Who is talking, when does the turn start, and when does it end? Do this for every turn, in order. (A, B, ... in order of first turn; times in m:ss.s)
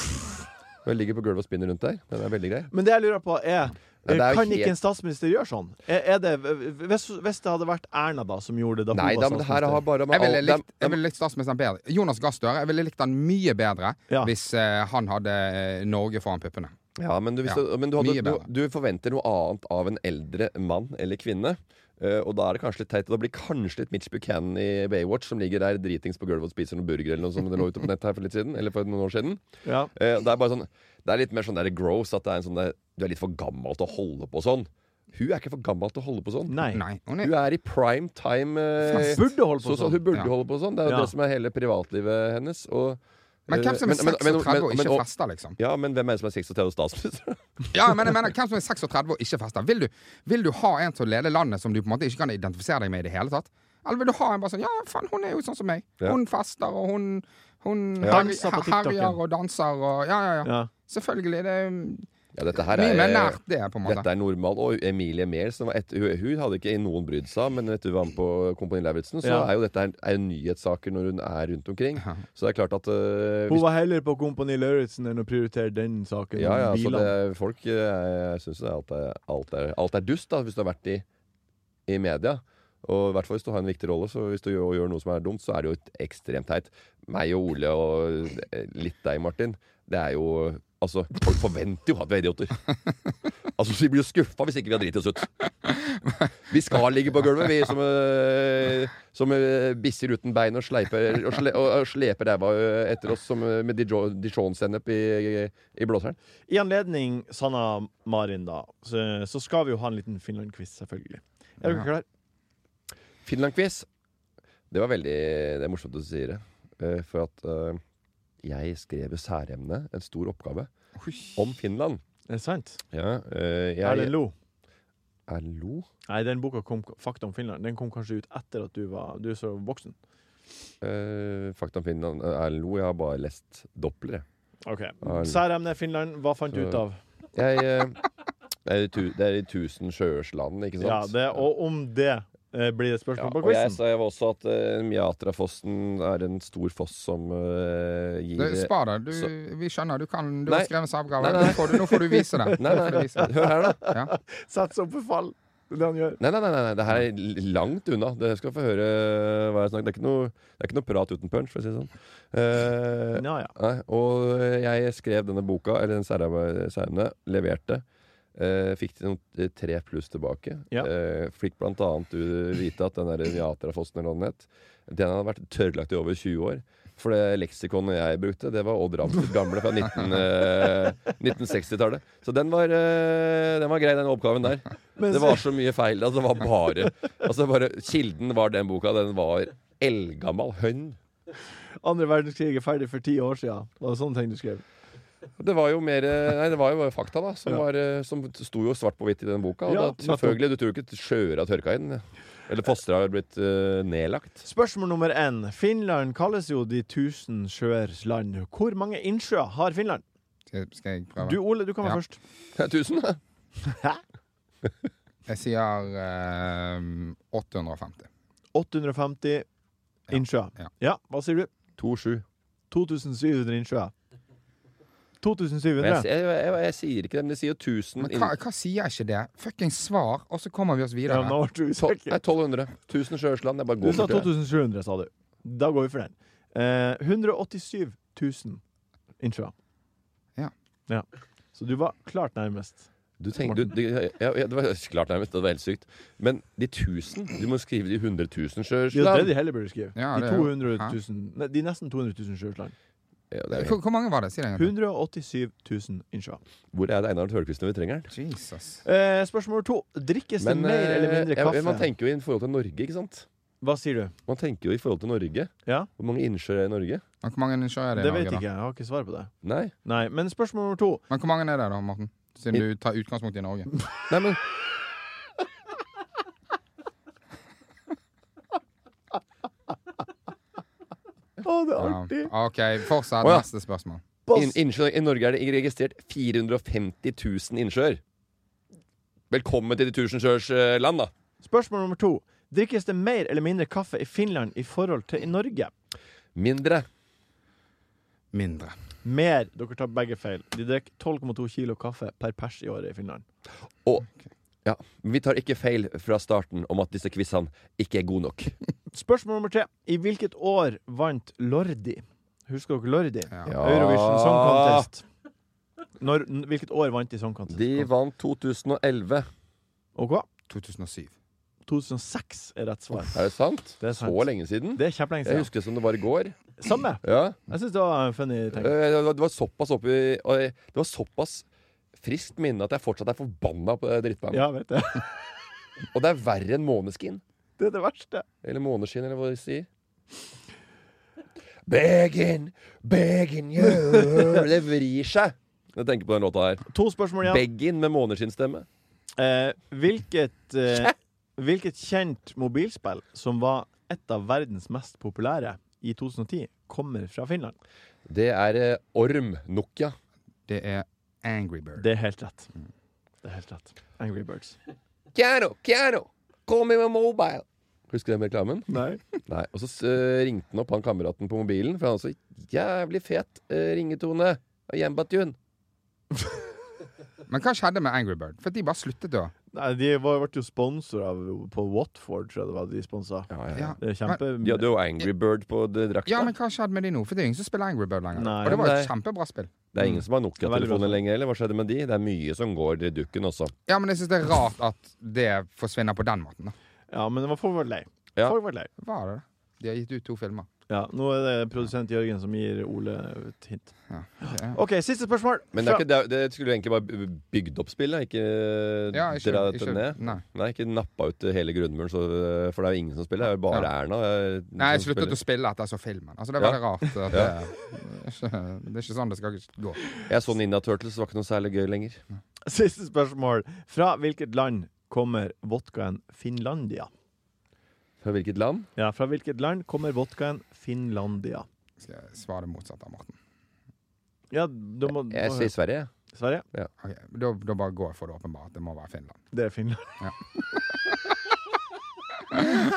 0:00.8-0:02.7 A
0:02.7-0:09.8 B
0:04.0-0:04.7 A
0:08.9-0:11.0 A
0:10.1-0:16.7 C
0:17.0-0:29.4 A
0:17.4-0:18.5 C
0:29.6-0:29.9 B
0:29.9-0:45.0 A
0:36.5-0:36.8 B
0:36.7-0:37.3 C
0:38.9-0:40.0 B
0:40.8-0:41.1 B
0:43.5-0:45.6 C
0:45.6-0:47.4 A
0:47.7-1:02.1 C
0:58.0-0:58.3 A
0:58.0-0:59.2 B
1:00.4-1:00.7 B
1:02.3-1:13.6 A
1:02.7-1:04.1 C
1:09.2-1:09.5 B
1:13.5-1:17.1 B
1:16.4-1:21.0 A
1:21.9-1:32.6 A
1:33.6-1:35.3 A
1:36.5-1:46.2 A
1:46.5-1:52.0 B
1:53.2-1:53.9 A
1:54.7-1:57.8 A
1:58.4-2:00.7 A
2:01.0-2:01.3 C
2:01.3-2:02.0 A
2:02.3-2:02.8 B
2:02.9-2:04.1 A
2:03.8-2:04.3 B
2:05.3-2:05.9 A
2:06.1-2:10.0 B
2:10.8-2:14.2 A
2:14.6-2:17.0 B
2:15.0-2:15.4 A
2:16.5-2:16.8 A
2:17.3-2:18.0 A
2:18.6-2:21.4 A
2:20.8-2:23.8 B
2:23.2-2:29.3 A
2:28.4-2:33.3 C
2:30.5-2:33.8 A
2:32.7-2:36.2 B
2:36.2-2:47.8 A
2:43.2-2:43.5 B
2:48.3-3:11.0 A
3:05.0-3:05.4 B
3:11.8-3:14.6 B
3:15.4-3:24.4 A
3:19.6-3:20.4 B
3:24.4-3:30.0 B
3:30.5-3:32.0 C
3:31.2-3:32.2 B
3:32.5-3:33.2 A
3:33.7-3:34.0 B
3:35.3-3:38.1 C
3:38.5-3:39.4 B
3:40.1-3:40.7 C
3:40.1-3:41.5 B
3:41.8-3:42.2 A
3:42.7-3:43.9 B
3:45.2-3:46.1 B
3:45.8-3:48.3 A
3:48.0-3:51.4 C
3:51.1-3:52.2 B
3:51.8-3:54.3 A
3:53.8-3:58.6 B
3:59.2-3:59.5 B
4:00.9-4:02.9 B
4:03.2-4:09.3 A
4:08.9-4:12.7 B
4:10.0-4:10.9 C
4:13.3-4:13.8 A
4:13.5-4:14.7 C
4:14.6-4:16.4 B
4:16.7-4:18.1 A
4:18.1-4:18.8 C
4:18.8-4:21.9 B
4:20.4-4:23.3 A
4:23.6-4:24.1 B
4:24.3-4:27.0 A
4:27.2-4:28.4 C
4:27.9-4:29.3 B
4:29.4-4:29.7 A
4:29.8-4:31.0 B
4:31.1-4:33.7 C
4:34.1-4:34.4 A
4:41.4-4:42.3 B
4:41.8-4:44.0 C
4:43.2-4:43.5 A
4:44.3-4:44.6 B
4:44.3-4:48.0 A
4:49.3-4:51.1 A
4:51.4-4:55.7 B
4:56.3-4:56.9 A
4:58.3-4:58.7 C
4:59.0-5:03.2 B
5:04.6-5:08.6 A
5:08.9-5:15.0 B
5:13.4-5:14.9 A
5:16.0-5:17.9 B
5:17.5-5:19.3 A
5:20.0-5:20.2 B
5:20.5-5:21.1 C
5:21.6-5:23.2 B
5:23.0-5:26.4 A
5:23.8-5:25.5 B
5:26.6-5:28.7 B
5:27.0-5:27.4 A
5:28.5-5:31.4 A
5:32.0-5:34.4 A
5:34.3-5:35.1 B
5:35.9-5:37.2 A
5:37.6-5:38.2 B
5:38.4-5:39.7 A
5:41.6-5:46.6 A
5:46.7-5:47.4 B
5:47.2-5:48.7 A
5:49.2-5:57.6 B
5:58.1-6:00.0 A
6:00.5-6:01.9 C
6:01.8-6:02.5 B
6:03.2-6:04.6 B
6:05.1-6:15.4 A
6:08.7-6:09.0 B
6:17.3-6:19.3 C
6:19.5-6:24.7 B
6:23.3-6:23.8 A
6:23.5-6:24.2 C
6:24.4-6:26.3 A
6:26.1-6:29.5 C
6:28.1-6:28.6 B
6:28.4-6:28.9 A
6:29.7-6:33.5 A
6:30.4-6:31.0 B
6:33.7-6:36.5 C
6:36.9-6:38.7 B
6:38.8-6:40.5 C
6:40.7-6:45.8 B
6:43.9-6:44.6 C
6:45.5-6:55.2 A
6:48.9-6:50.2 C
6:54.6-6:59.8 C
7:00.1-7:02.0 A
7:02.4-7:06.9 B
7:08.0-7:08.7 A
7:08.8-7:11.5 B
7:11.8-7:13.2 C
7:14.3-7:15.5 B
7:14.9-7:15.9 A
7:16.1-7:16.4 B
7:16.8-7:19.2 C
7:19.3-7:19.9 B